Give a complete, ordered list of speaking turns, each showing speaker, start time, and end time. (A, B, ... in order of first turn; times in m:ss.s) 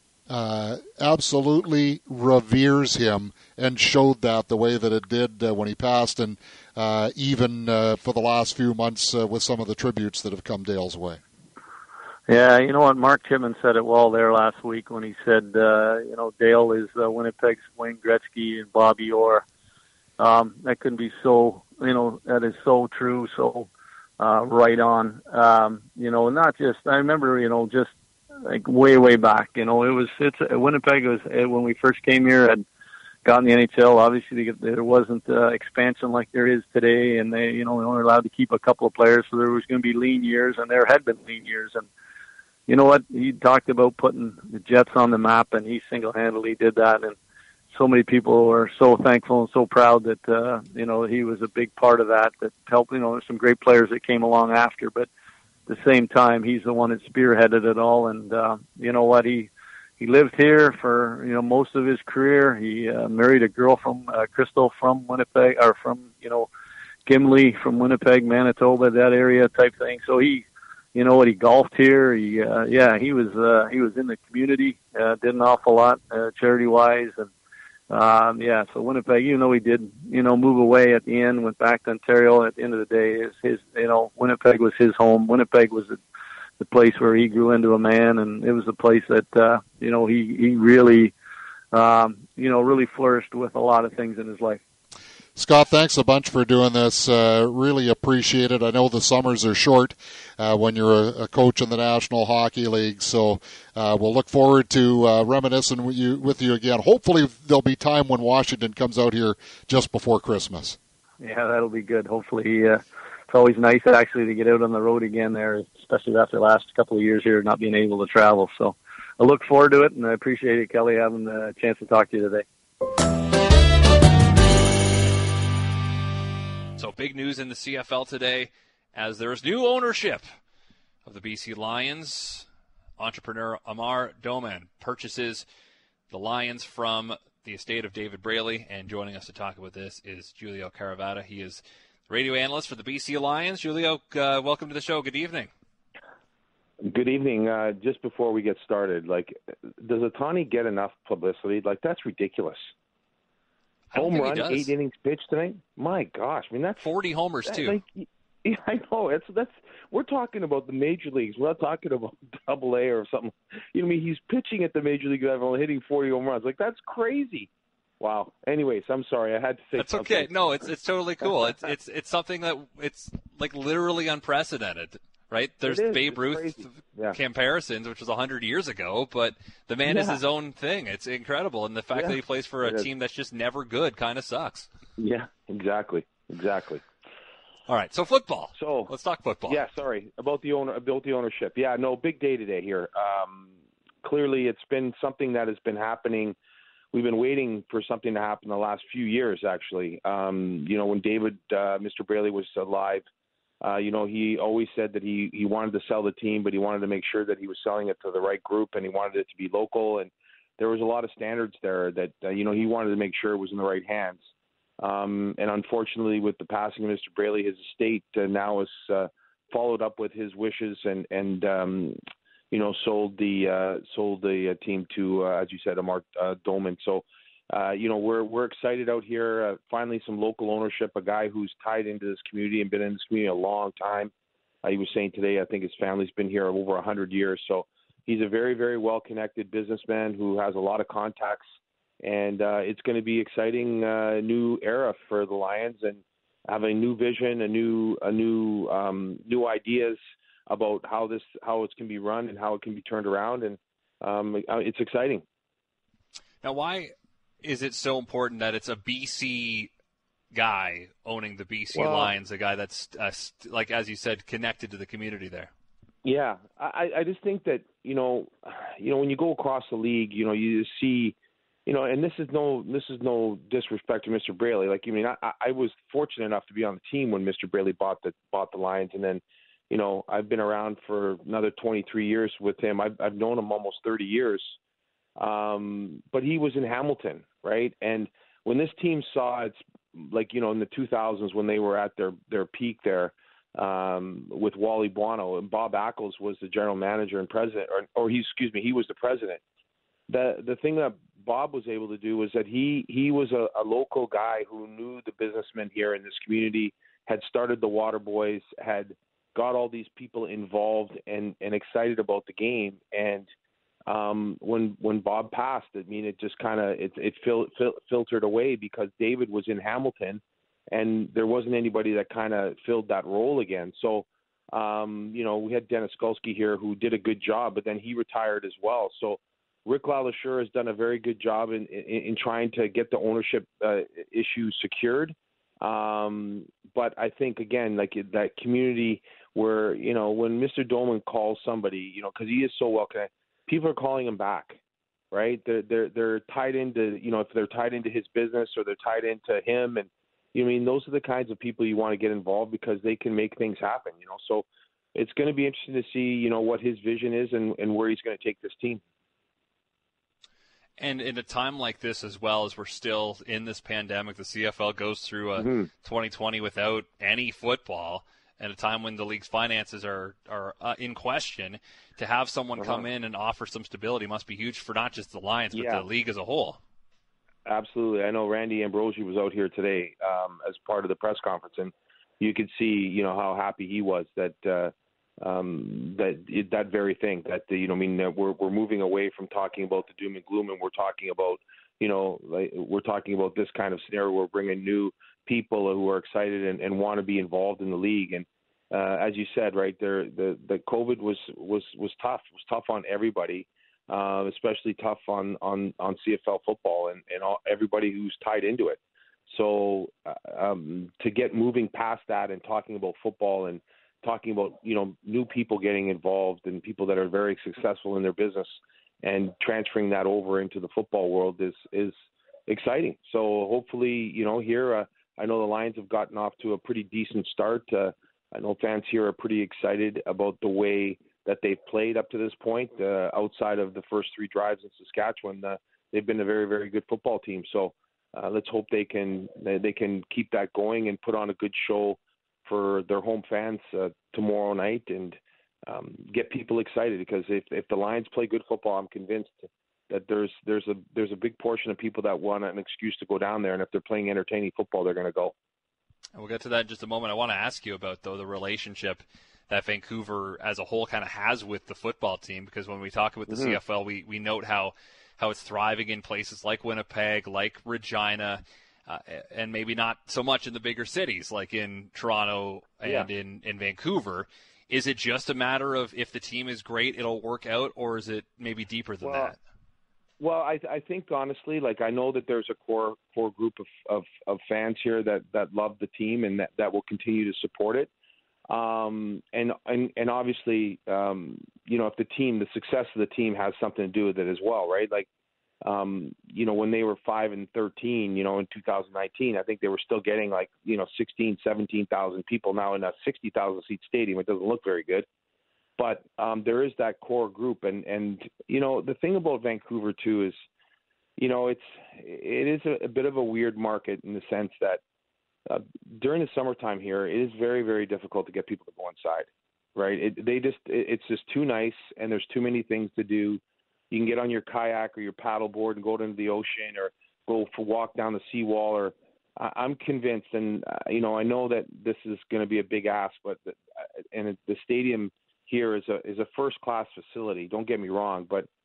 0:00.3-0:11.2 A
0:12.3-0:19.4 B
0:20.2-0:32.6 B
0:33.2-0:41.9 B
0:42.7-0:47.2 B
0:47.7-0:55.1 B
0:55.7-1:06.5 B
1:07.1-1:17.3 B
1:17.9-1:26.0 B
1:26.6-1:31.1 B
1:31.7-1:34.6 B
1:35.4-1:50.8 A
1:51.2-2:02.4 B
2:06.8-2:10.2 C
2:11.1-2:12.5 C
2:13.0-2:15.4 C
2:16.1-2:25.5 C
2:26.8-2:32.7 D
2:33.9-2:34.7 C
2:34.0-2:36.8 D
2:36.8-2:37.8 C
2:37.5-2:47.5 D
2:48.0-2:50.3 D
2:49.8-3:04.7 C
2:55.7-2:57.2 D
2:59.9-3:00.2 D
3:01.9-3:02.9 D
3:05.0-3:06.8 D
3:07.7-3:09.6 C
3:08.6-3:08.9 D
3:09.5-3:13.5 D
3:14.0-3:16.4 D
3:16.9-3:23.0 D
3:23.6-3:34.2 D
3:34.8-3:42.0 D
3:42.5-3:54.1 D
3:54.6-4:01.4 D
4:02.0-4:10.0 D
4:10.5-4:15.2 D
4:16.4-4:19.7 C
4:20.3-4:25.5 C
4:21.7-4:22.1 D
4:26.0-4:31.2 D
4:31.7-4:44.6 D
4:45.2-4:59.4 D
5:00.1-5:13.3 D
5:13.9-5:44.6 D
5:45.1-5:58.8 D
6:00.8-6:16.6 C
6:05.4-6:05.7 D
6:12.6-6:12.8 D
6:15.5-6:15.8 D
6:17.5-7:02.0 D
7:02.5-7:35.3 D
7:36.2-7:59.4 C
7:43.3-7:43.6 D
7:59.0-7:59.3 D
8:00.2-8:07.9 D
8:08.5-8:15.1 D
8:15.6-8:25.1 D
8:25.8-8:30.4 D
8:31.2-8:34.8 D
8:35.5-8:53.6 D
8:54.1-8:58.5 D